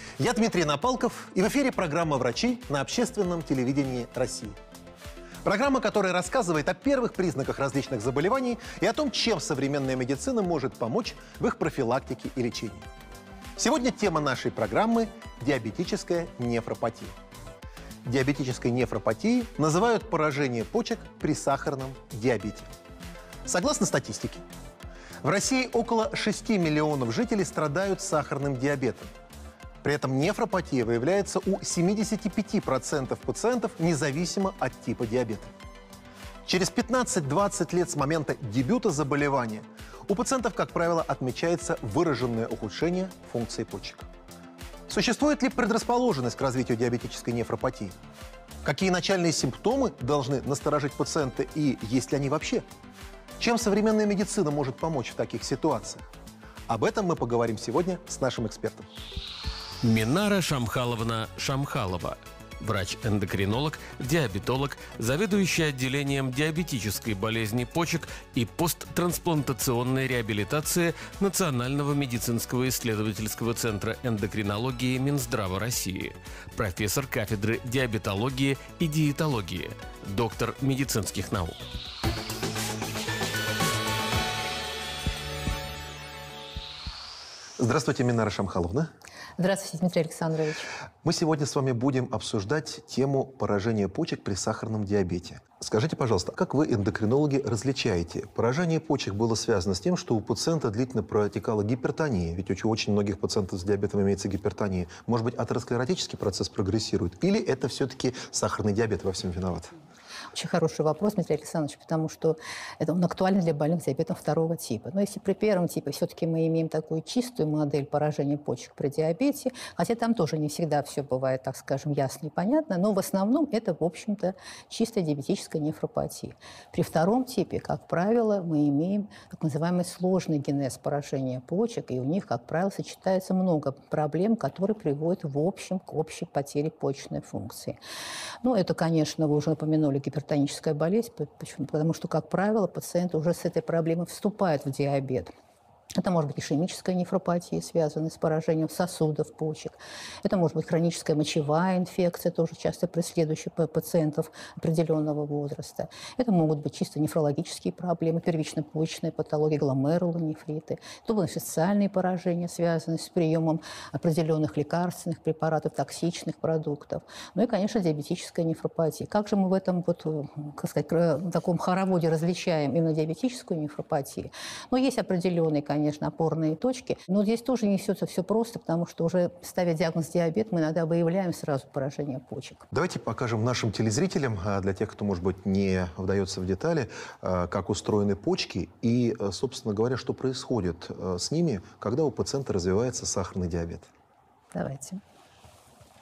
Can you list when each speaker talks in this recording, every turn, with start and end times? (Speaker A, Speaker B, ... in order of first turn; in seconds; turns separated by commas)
Speaker A: 0.2-4.6, Speaker A: 5.4-12.9, Speaker A: 13.6-17.1, Speaker A: 18.0-22.7, Speaker A: 23.4-24.4, Speaker A: 25.2-29.1, Speaker A: 29.8-35.5, Speaker A: 36.5-44.1, Speaker A: 44.9-48.0, Speaker A: 48.6-52.6, Speaker A: 53.4-56.1, Speaker A: 56.7-58.9, Speaker B: 59.8-81.6, Speaker A: 87.6-88.9, Speaker C: 89.4-90.7, Speaker A: 91.0-109.7, Speaker C: 110.3-137.8, Speaker C: 138.4-145.3, Speaker C: 146.0-182.7, Speaker A: 182.7-193.9, Speaker C: 194.5-195.0